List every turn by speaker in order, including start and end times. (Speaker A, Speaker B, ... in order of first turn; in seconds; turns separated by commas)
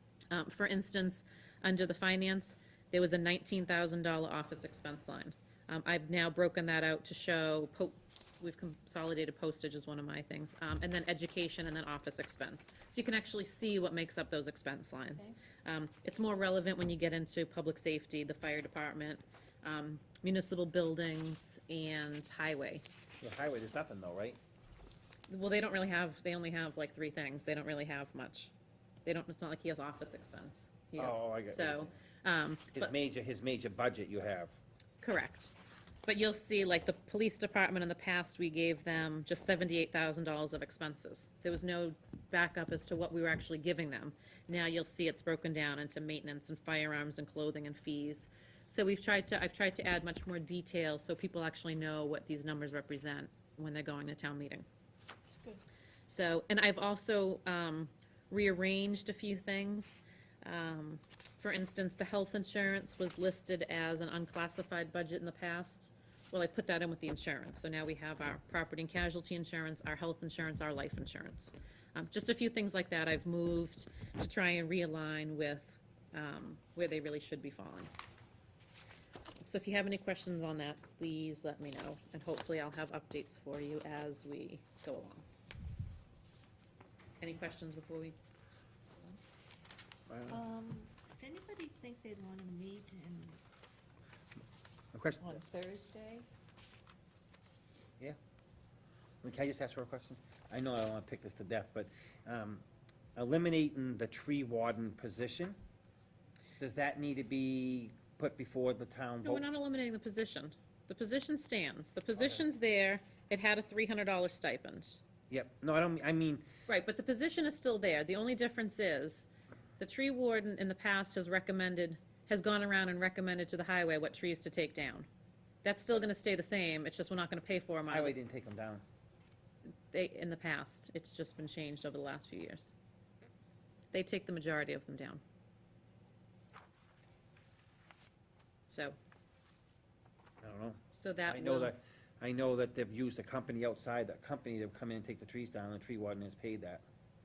Speaker A: 0.3-22.8, Speaker B: 23.2-24.4, Speaker A: 25.3-28.5, Speaker A: 29.1-32.9, Speaker B: 31.0-32.0, Speaker B: 32.7-34.6, Speaker A: 35.0-35.5, Speaker A: 36.0-54.7, Speaker C: 55.3-55.6, Speaker A: 56.1-77.9, Speaker A: 79.4-85.2, Speaker A: 87.2-88.2, Speaker B: 90.1-90.4, Speaker C: 90.3-93.4, Speaker B: 94.9-95.4, Speaker C: 95.2-96.3, Speaker B: 99.2-102.6, Speaker B: 103.2-105.6, Speaker B: 106.6-109.5, Speaker A: 109.2-115.0, Speaker B: 112.2-112.4, Speaker B: 115.3-116.5, Speaker A: 116.7-119.3, Speaker A: 119.8-125.1, Speaker A: 125.6-128.2, Speaker B: 127.9-128.8, Speaker A: 129.9-132.7, Speaker A: 133.9-135.2, Speaker A: 138.7-139.0, Speaker B: 140.4-146.8, Speaker A: 140.9-141.8